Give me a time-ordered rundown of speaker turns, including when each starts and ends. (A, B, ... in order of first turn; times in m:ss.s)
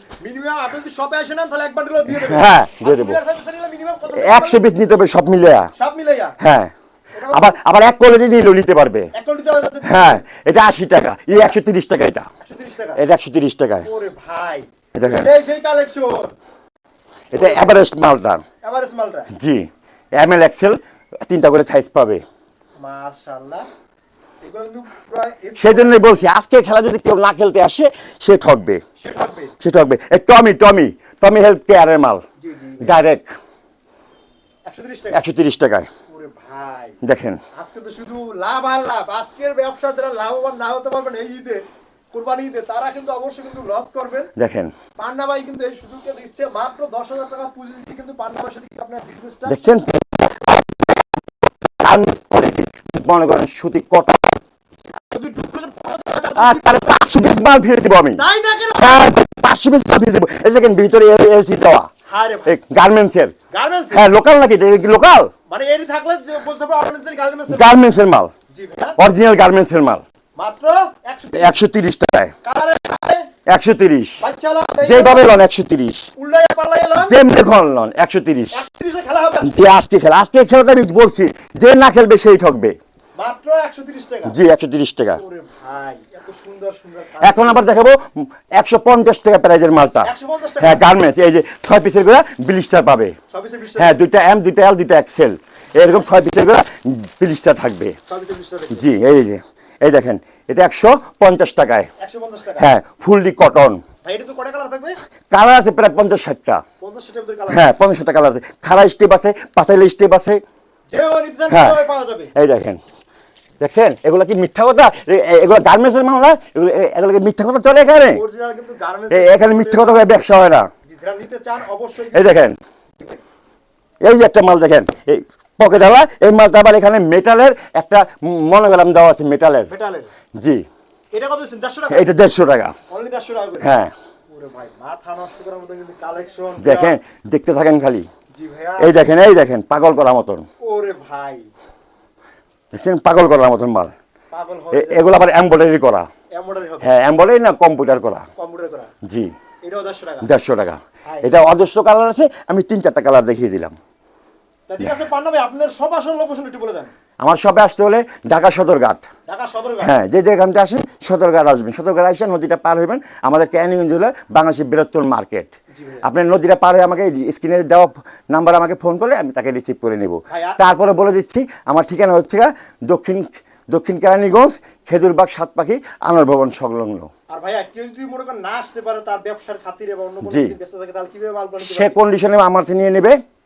0:00.2-0:04.6 A
0:02.1-0:03.2 B
0:04.2-0:05.7 B
0:05.8-0:06.4 A
0:06.4-0:06.7 B
0:07.2-0:07.6 A
0:07.3-0:09.1 B
0:09.2-0:10.2 A
0:09.8-0:12.3 B
0:12.4-0:13.0 A
0:13.0-0:13.9 B
0:13.8-0:16.3 A
0:14.9-0:15.3 B
0:17.3-0:18.4 B
0:17.3-0:17.8 A
0:18.6-0:19.3 A
0:19.3-0:22.2 B
0:22.8-0:23.7 A
0:24.4-0:26.2 A
0:25.6-0:28.8 B
0:29.0-0:29.6 A
0:29.6-0:32.2 B
0:32.4-0:33.0 A
0:32.8-0:33.3 B
0:34.7-0:35.2 A
0:35.1-0:35.9 B
0:36.1-0:37.0 A
0:37.0-0:37.4 B
0:37.6-0:44.3 A
0:44.4-0:44.7 B
0:45.0-0:49.8 A
0:49.5-0:50.9 B
0:51.8-0:54.4 B
0:55.1-0:57.0 A
0:56.4-0:58.2 B
0:58.2-0:59.1 A
0:58.8-1:01.9 B
1:02.1-1:02.6 A
1:02.5-1:03.4 B
1:03.5-1:04.0 A
1:03.9-1:05.3 B
1:05.5-1:07.8 A
1:07.5-1:08.3 B
1:08.5-1:09.0 A
1:09.0-1:10.0 B
1:10.4-1:11.6 A
1:11.4-1:12.3 B
1:12.4-1:13.3 A
1:13.5-1:14.2 B
1:14.2-1:15.3 A
1:14.8-1:16.1 B
1:16.2-1:17.2 A
1:17.0-1:18.6 B
1:18.5-1:19.6 A
1:19.4-1:22.8 B
1:23.2-1:24.4 A
1:24.3-1:25.2 B
1:25.2-1:27.6 A
1:27.2-1:33.1 B
1:30.0-1:30.8 A
1:33.3-1:34.0 A
1:33.8-1:38.0 B
1:38.1-1:38.9 A
1:38.7-1:41.9 B
1:42.0-1:42.7 A
1:42.6-1:43.8 B
1:44.0-1:45.0 A
1:45.3-1:46.6 B
1:46.8-1:47.8 A
1:47.5-1:50.4 B
1:50.9-1:52.3 A
1:51.5-1:51.8 B
1:52.4-1:52.8 B
1:53.6-1:58.2 B
1:58.1-2:00.1 A
1:59.1-2:00.7 B
2:00.9-2:02.4 A
2:02.1-2:02.6 B
2:04.0-2:09.7 B
2:09.7-2:10.1 A
2:10.4-2:10.6 B
2:11.1-2:12.1 A
2:11.9-2:12.8 B
2:12.9-2:13.7 A
2:13.6-2:13.9 B
2:14.3-2:17.0 A
2:16.6-2:18.1 B
2:18.4-2:19.1 A
2:18.8-2:20.4 B
2:20.6-2:21.5 A
2:22.7-2:23.9 B
2:24.3-2:25.1 A
2:24.7-2:26.1 B
2:26.4-2:26.9 A
2:26.8-2:28.3 B
2:28.4-2:28.9 A
2:29.0-2:29.3 B
2:29.6-2:30.3 A
2:30.2-2:33.8 B
2:31.1-2:31.3 A
2:34.7-2:36.9 A
2:37.2-2:39.0 B
2:39.3-2:40.0 A
2:39.8-2:45.5 B
2:45.7-2:46.1 A
2:46.0-2:57.1 B
2:50.3-2:50.6 A
2:57.3-3:02.0 A
3:00.2-3:00.6 B
3:01.6-3:03.2 B